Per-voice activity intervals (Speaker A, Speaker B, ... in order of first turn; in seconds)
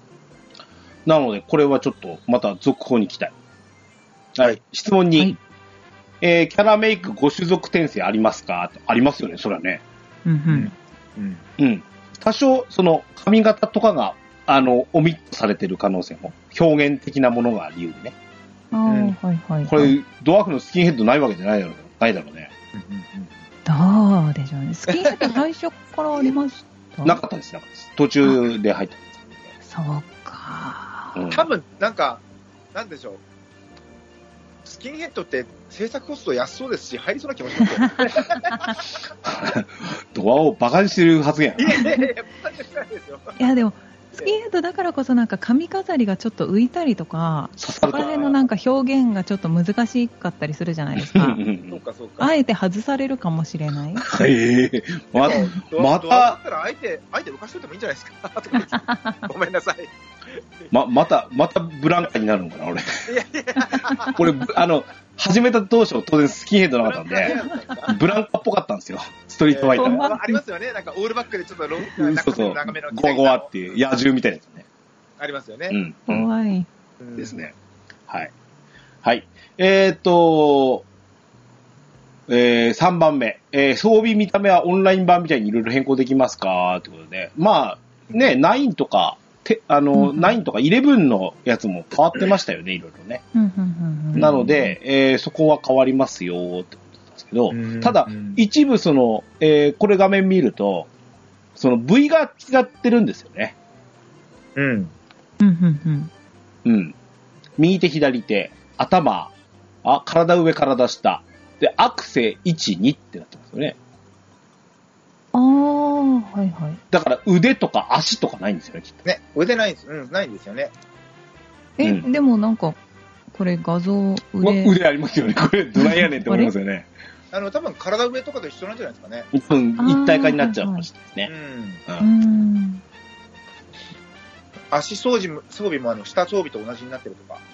Speaker A: 1.1-3.3, 4.3-5.3, 6.2-9.8, 11.6-18.1, 19.7-22.5, 27.0-29.5, 31.1-31.4, 39.2-41.9, 47.6-48.3, 51.0-51.8, 54.0-56.4, 60.7-63.1, 64.0-70.1, 72.0-74.7, 75.7-76.3, 77.2-77.5, 79.0-80.8, 82.3-93.2, 94.1-100.9, 101.6-103.5, 106.7-107.0, 107.6-109.3, 109.8-113.8, 116.9-119.0, 121.8-122.1, 124.4-126.9, 129.3-131.3
Speaker B: 10.2-10.7, 18.7-19.9, 23.7-27.2, 29.6-31.2, 43.4-51.4, 52.2-54.1, 69.8-70.4, 76.1-76.7, 89.9-90.3, 93.3-94.7, 105.4-106.1, 115.3-116.8, 121.8-122.8, 123.3-124.7, 125.8-126.5, 129.8-130.9, 132.0-132.8
Speaker C: 10.5-11.4, 18.9-19.1, 22.7-23.3, 24.9-25.4, 31.3-32.2, 32.7-33.2, 34.6-38.8, 41.6-43.4, 47.9-48.3, 51.7-52.3, 55.2-59.9, 63.1-64.2, 66.8-68.0, 69.5-73.5, 75.2-75.8, 77.0-77.3, 97.5-98.4, 104.6-104.9, 119.0-120.7, 127.3-129.3, 131.3-131.8, 134.7-137.4